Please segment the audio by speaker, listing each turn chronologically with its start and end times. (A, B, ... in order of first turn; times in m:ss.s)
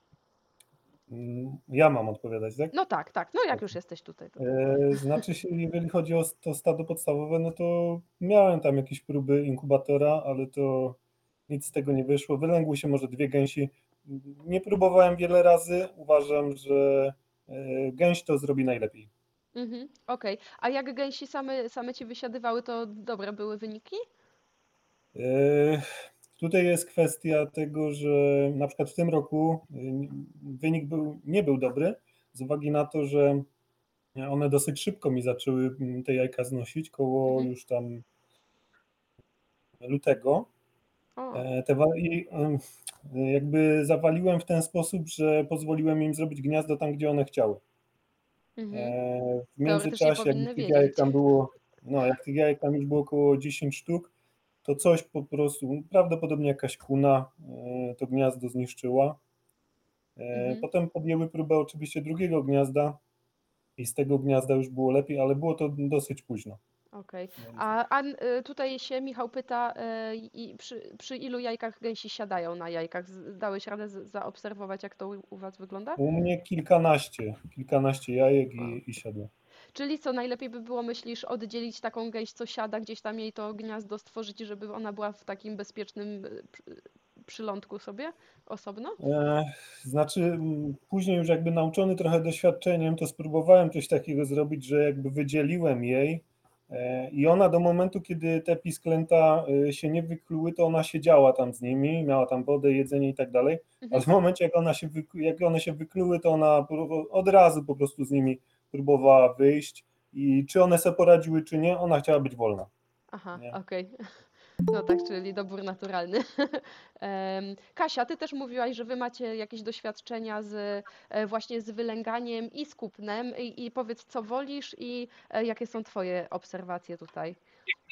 0:01.1-0:02.7 A
0:02.7-0:04.5 B
0:04.4-0:19.1 A
0:19.6-0:24.0 B
0:25.2-0:33.5 A
0:34.2-0:38.0 A
0:39.8-0:40.5 A
0:41.2-0:41.5 B
0:41.3-0:47.6 A
0:48.6-0:48.9 B
0:48.7-0:54.1 A
0:49.6-0:51.1 B
0:54.6-0:59.2 A
1:00.2-1:03.0 A
1:00.3-1:00.7 B
1:03.8-1:06.6 A
1:06.9-1:16.0 B
1:07.4-1:07.7 A
1:16.0-1:19.3 A
1:19.8-1:29.0 B
1:29.0-1:52.7 A
1:53.1-1:54.0 B
1:54.7-2:07.4 B